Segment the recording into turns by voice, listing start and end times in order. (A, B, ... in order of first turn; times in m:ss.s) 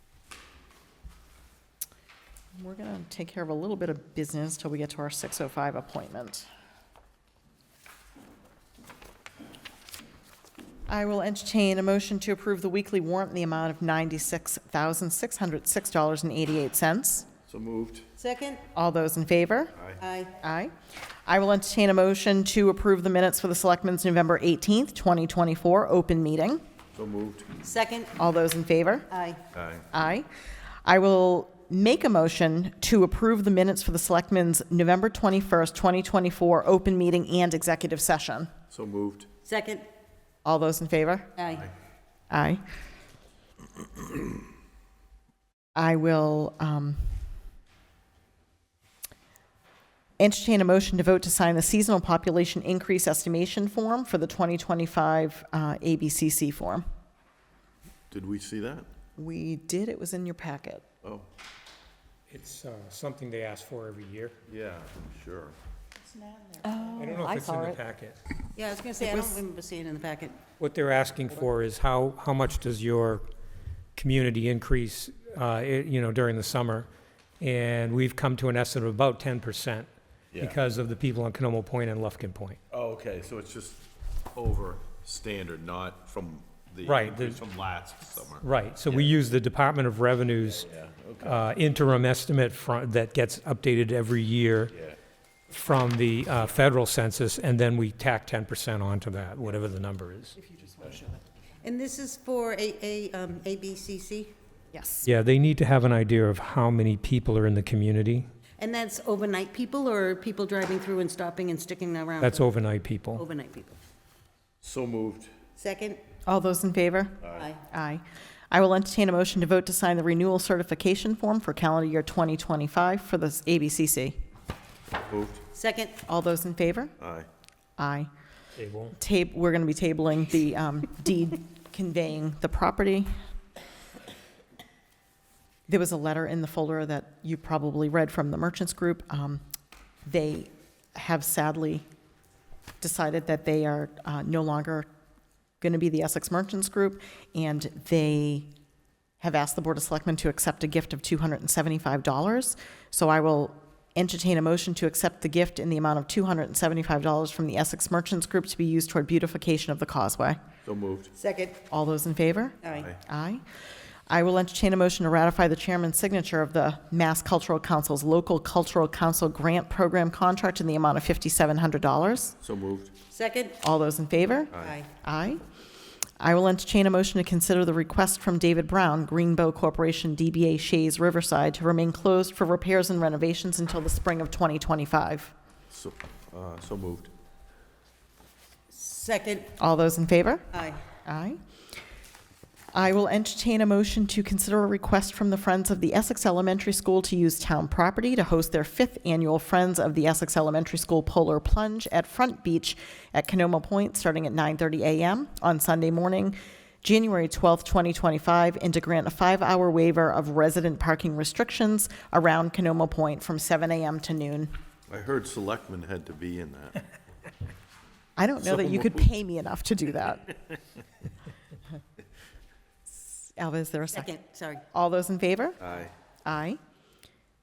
0:02.6-0:06.5 A
0:10.9-0:17.3 A
0:17.5-0:18.1 B
0:18.2-0:18.6 C
0:18.7-0:19.7 A
0:20.0-0:20.3 C
0:20.4-0:20.7 A
0:21.2-0:26.6 A
0:26.9-0:27.5 B
0:27.6-0:28.1 C
0:28.2-0:29.1 A
0:29.1-0:29.4 C
0:29.5-0:29.9 B
0:29.9-0:30.3 A
0:30.8-0:38.5 A
0:38.7-0:39.3 B
0:39.4-0:39.8 C
0:40.4-0:41.3 A
0:41.4-0:41.7 C
0:42.3-0:42.6 A
0:45.7-0:47.1 A
0:50.2-0:56.8 A
0:58.1-0:58.9 B
0:59.2-1:00.8 A
1:02.3-1:04.4 D
1:04.5-1:05.6 B
1:06.4-1:07.8 A
1:07.0-1:08.2 D
1:08.5-1:10.4 C
1:09.0-1:09.3 A
1:10.6-1:13.2 D
1:14.0-1:16.9 D
1:17.4-1:22.6 D
1:22.7-1:29.1 B
1:26.8-1:27.4 D
1:28.4-1:30.7 D
1:30.6-1:31.4 B
1:31.2-1:34.7 D
1:35.5-1:40.4 D
1:41.6-1:44.3 C
1:44.7-1:45.1 A
1:45.0-1:48.3 D
1:48.6-1:52.5 C
1:52.2-1:53.2 D
1:53.1-1:53.8 C
1:54.6-1:55.3 B
1:55.6-1:56.0 C
1:56.2-2:04.2 A
1:57.2-1:57.5 B
1:57.3-1:57.6 C
2:05.1-2:05.4 B
2:05.5-2:06.0 C
2:06.0-2:06.9 A
2:07.0-2:07.3 B
2:07.8-2:08.1 A
2:08.6-2:08.9 D
2:08.9-2:13.1 A
2:15.7-2:19.4 A
2:20.0-2:21.8 A
2:22.8-2:24.9 A
2:25.6-2:28.5 A
2:29.2-2:40.4 A
2:40.6-2:41.1 B
2:41.2-2:41.6 C
2:41.7-2:43.4 A
2:42.6-2:42.9 C
2:42.7-2:43.0 B
2:44.1-2:52.4 A
2:52.4-2:52.9 B
2:53.1-2:53.6 C
2:53.6-2:55.4 A
2:54.6-2:54.9 C
2:56.2-3:05.3 A
3:05.7-3:07.1 B
3:08.7-3:09.5 C
3:09.6-3:10.5 A
3:10.5-3:10.8 C
3:11.0-3:11.4 A
3:12.7-3:34.5 A
3:34.9-3:36.8 B
3:38.2-3:40.3 A
3:38.4-3:39.1 B
3:43.2-3:44.2 A
3:43.9-3:44.6 C
3:44.7-3:45.6 A
3:45.6-3:45.9 B
3:46.2-3:46.6 A